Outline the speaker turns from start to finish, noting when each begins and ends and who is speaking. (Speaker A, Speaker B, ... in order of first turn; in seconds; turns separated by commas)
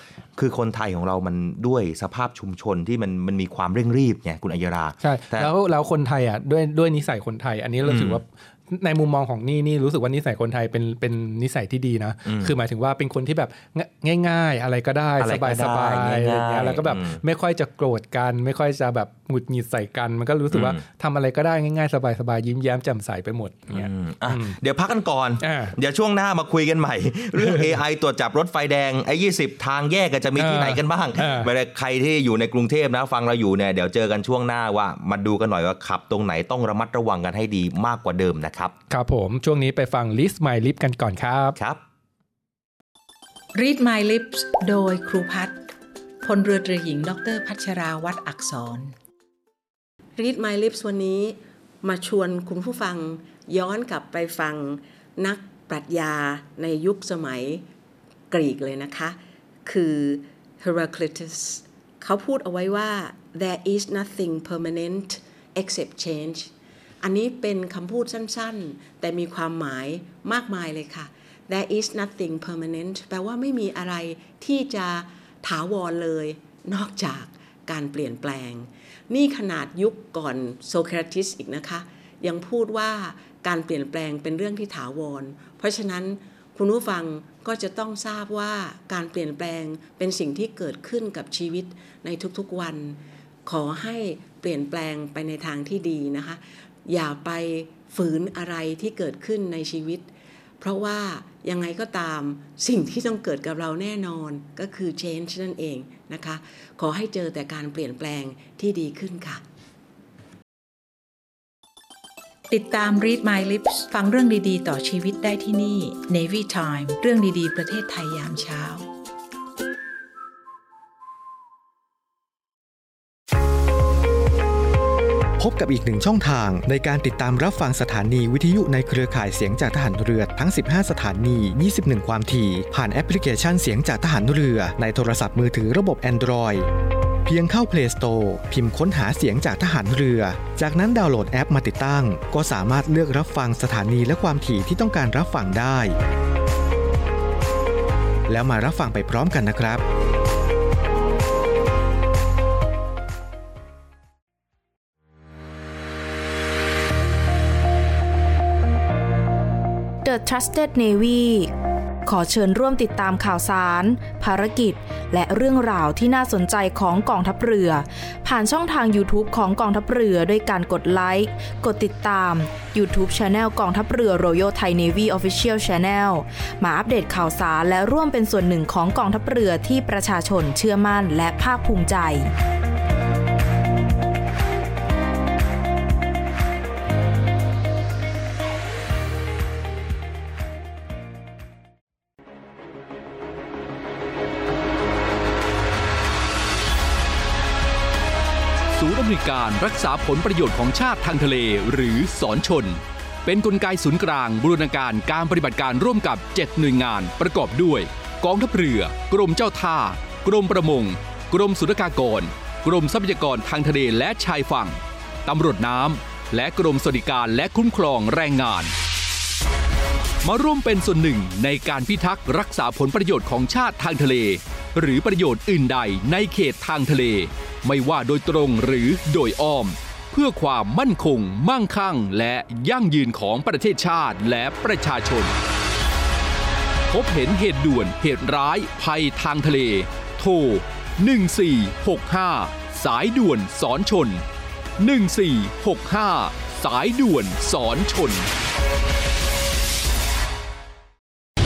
Speaker A: 0.3-5.5, Speaker B: 5.0-24.6, Speaker A: 7.8-8.2, Speaker A: 12.2-12.5, Speaker A: 15.2-17.2, Speaker A: 20.5-20.8, Speaker A: 23.7-38.7, Speaker B: 25.4-25.7, Speaker B: 27.4-27.7, Speaker B: 30.4-31.5, Speaker B: 38.9-41.6, Speaker A: 41.6-41.8, Speaker C: 43.5-45.6, Speaker C: 46.2-48.9, Speaker D: 50.1-57.6, Speaker D: 58.3-109.4, Speaker C: 112.5-118.8, Speaker E: 125.4-136.7, Speaker E: 137.2-145.9, Speaker E: 148.3-149.8, Speaker F: 160.0-161.5, Speaker F: 162.1-182.3, Speaker G: 198.7-218.7, Speaker G: 220.2-235.3, Speaker G: 236.9-244.2, Speaker G: 244.8-248.3